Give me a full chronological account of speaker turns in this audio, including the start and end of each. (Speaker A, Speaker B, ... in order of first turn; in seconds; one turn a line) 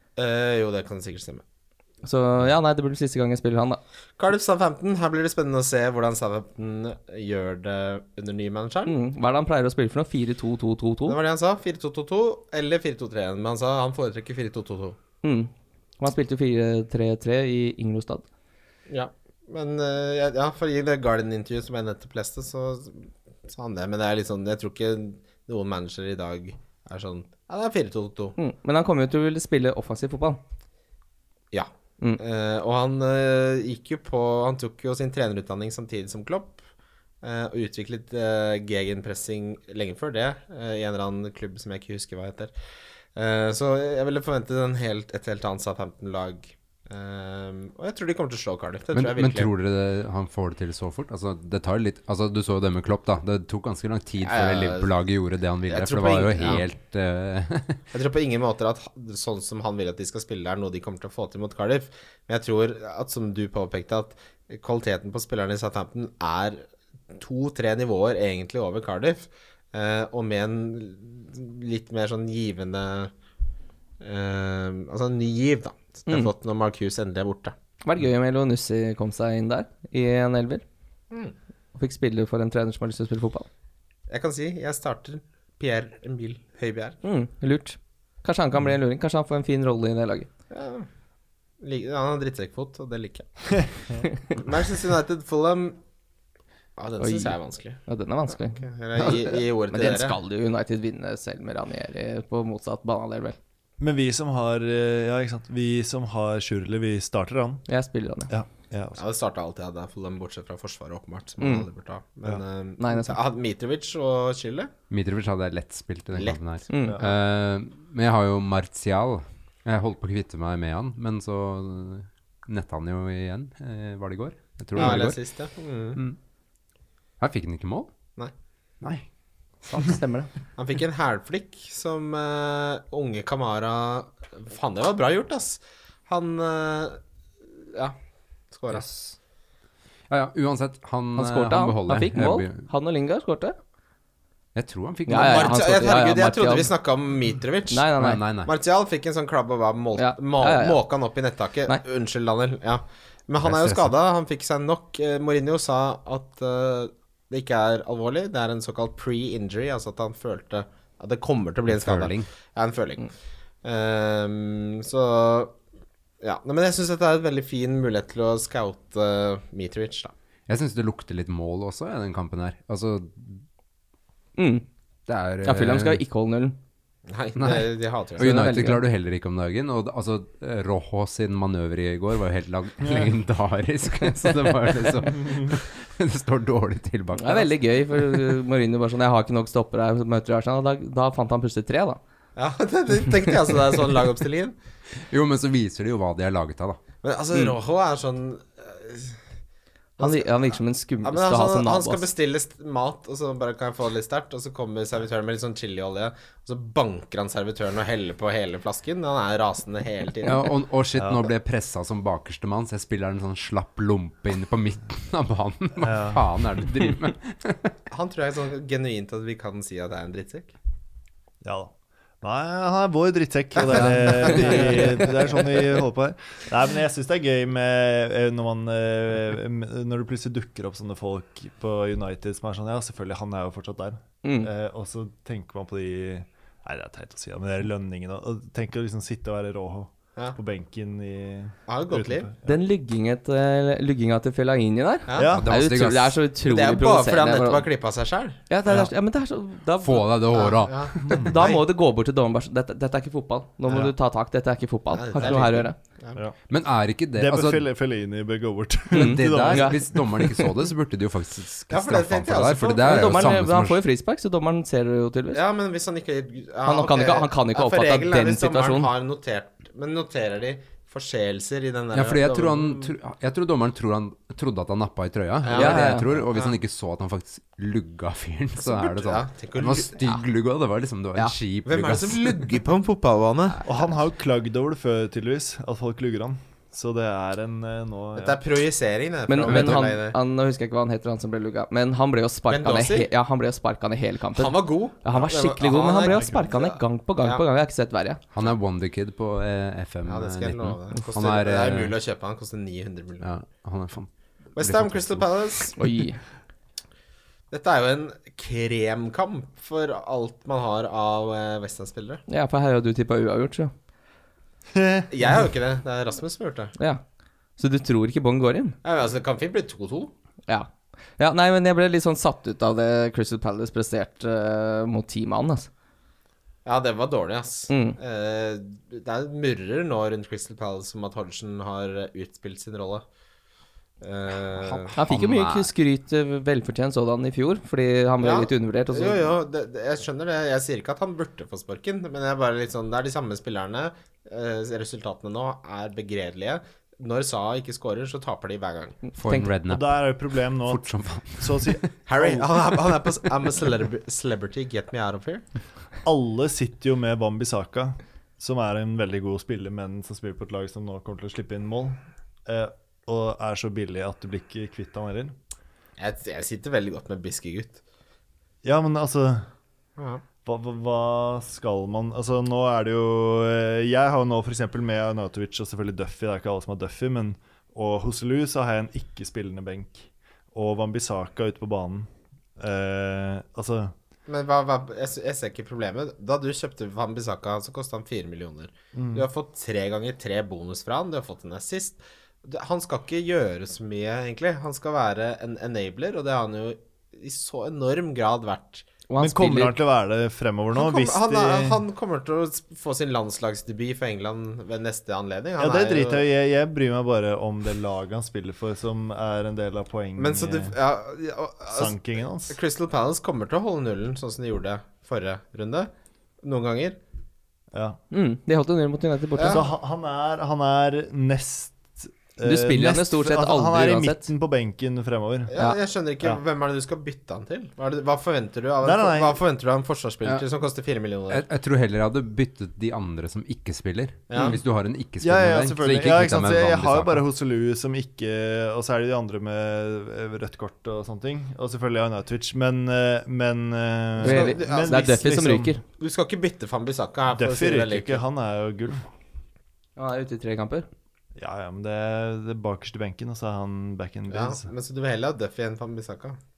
Speaker A: 0.2-1.4
Speaker B: 2.0-3.8
Speaker A: 4.2-8.9
Speaker B: 8.9-11.2
Speaker A: 11.1-15.0
Speaker B: 15.2-18.2
Speaker A: 18.9-28.4
Speaker B: 28.4-30.4
Speaker A: 31.5-36.6
Speaker A: 37.2-42.5
Speaker A: 43.2-49.5
Speaker C: 48.9-57.8
Speaker A: 54.2-54.9
Speaker A: 55.7-56.6
Speaker A: 57.9-73.1
Speaker A: 74.0-77.5
Speaker B: 77.8-80.6
Speaker B: 81.7-83.5
Speaker A: 84.1-87.0
Speaker B: 87.0-90.3
Speaker A: 90.5-90.9
Speaker A: 91.6-93.7
Speaker A: 94.3-95.8
Speaker A: 96.8-97.8
Speaker B: 97.0-103.4
Speaker A: 98.5-100.2
Speaker D: 103.8-107.7
Speaker B: 107.7-108.3
Speaker D: 108.3-109.0
Speaker A: 108.9-114.7
Speaker B: 111.4-111.7
Speaker B: 112.8-113.2
Speaker C: 114.9-125.2
Speaker A: 116.1-116.4
Speaker B: 116.7-117.0
Speaker D: 116.8-117.2
Speaker B: 124.7-125.0
Speaker A: 124.8-126.0
Speaker C: 127.2-127.9
Speaker C: 128.8-129.1
Speaker B: 129.7-130.3
Speaker A: 130.6-137.0
Speaker A: 137.6-137.9
Speaker A: 138.5-138.9
Speaker C: 138.7-139.2
Speaker C: 140.1-142.7
Speaker B: 141.2-143.6
Speaker C: 144.6-145.8
Speaker B: 145.1-146.7
Speaker A: 145.2-147.9
Speaker B: 147.7-148.2
Speaker C: 148.0-148.5
Speaker A: 148.4-163.1
Speaker B: 149.9-150.8
Speaker C: 153.4-153.9
Speaker C: 161.7-162.3
Speaker A: 163.6-165.6
Speaker A: 166.2-170.1
Speaker C: 170.5-173.4
Speaker B: 174.4-174.7
Speaker C: 175.1-176.0
Speaker B: 175.4-176.6
Speaker A: 177.1-178.3
Speaker C: 177.4-188.2
Speaker B: 178.2-178.8
Speaker D: 182.8-183.1
Speaker D: 185.2-185.5
Speaker B: 187.2-192.0
Speaker A: 192.4-194.6
Speaker C: 195.0-196.8
Speaker A: 197.0-199.2
Speaker B: 200.0-202.1
Speaker A: 200.0-210.4
Speaker C: 210.2-217.7
Speaker D: 210.9-211.3
Speaker D: 215.8-216.3
Speaker A: 217.9-220.5
Speaker D: 221.4-242.6
Speaker A: 223.6-225.1
Speaker B: 234.2-234.5
Speaker A: 241.7-242.3
Speaker B: 242.4-247.7
Speaker A: 245.1-245.4
Speaker D: 245.1-245.4
Speaker C: 245.3-246.2
Speaker A: 246.4-248.4
Speaker B: 248.5-250.1
Speaker C: 249.8-251.2
Speaker A: 250.3-251.7
Speaker D: 251.0-251.4
Speaker B: 251.2-255.8
Speaker D: 253.7-253.9
Speaker A: 254.9-256.2
Speaker C: 256.5-257.6
Speaker D: 257.1-260.4
Speaker B: 258.9-259.8
Speaker C: 258.9-263.8
Speaker A: 261.7-263.3
Speaker B: 262.8-265.4
Speaker A: 265.3-272.9
Speaker B: 266.6-268.9
Speaker C: 271.9-282.5
Speaker A: 275.4-276.6
Speaker B: 275.5-276.1
Speaker A: 278.6-280.0
Speaker A: 281.6-283.6
Speaker D: 283.6-288.4
Speaker A: 288.1-290.2
Speaker B: 289.3-298.2
Speaker A: 292.5-293.1
Speaker A: 294.4-297.4
Speaker D: 296.1-296.4
Speaker C: 298.3-301.9
Speaker A: 300.1-303.3
Speaker C: 303.2-305.6
Speaker A: 304.6-305.9
Speaker B: 305.8-306.2
Speaker A: 307.5-312.2
Speaker B: 312.3-313.7
Speaker D: 314.7-315.4
Speaker A: 315.1-316.7
Speaker B: 316.8-317.0
Speaker B: 317.6-318.8
Speaker A: 318.8-320.1
Speaker B: 320.5-325.7
Speaker A: 326.6-333.1
Speaker B: 327.7-328.0
Speaker A: 334.0-334.9
Speaker C: 334.6-335.7
Speaker B: 334.9-339.3
Speaker A: 338.2-349.0
Speaker B: 349.1-349.5
Speaker C: 349.1-351.9
Speaker D: 349.7-350.9
Speaker D: 351.4-352.5
Speaker A: 352.1-355.4
Speaker D: 356.1-365.4
Speaker A: 366.0-367.8
Speaker D: 368.6-369.5
Speaker A: 370.0-370.2
Speaker D: 370.4-383.9
Speaker A: 384.3-398.9
Speaker D: 388.9-389.3
Speaker B: 399.1-399.8
Speaker D: 399.2-401.9
Speaker A: 400.7-406.2
Speaker D: 405.6-410.8
Speaker A: 410.2-412.0
Speaker D: 411.7-412.6
Speaker A: 412.5-415.9
Speaker A: 416.4-417.0
Speaker D: 417.7-418.0
Speaker B: 418.1-419.6
Speaker A: 419.4-419.6
Speaker D: 419.4-425.5
Speaker B: 422.4-424.3
Speaker A: 425.5-431.4
Speaker D: 428.8-429.4
Speaker C: 431.3-437.2
Speaker A: 434.3-434.6
Speaker B: 434.3-434.6
Speaker D: 435.2-445.7
Speaker A: 444.2-445.2
Speaker B: 444.2-445.8
Speaker A: 445.9-448.2
Speaker D: 447.3-449.1
Speaker B: 449.9-450.9
Speaker D: 451.4-454.7
Speaker A: 454.3-456.4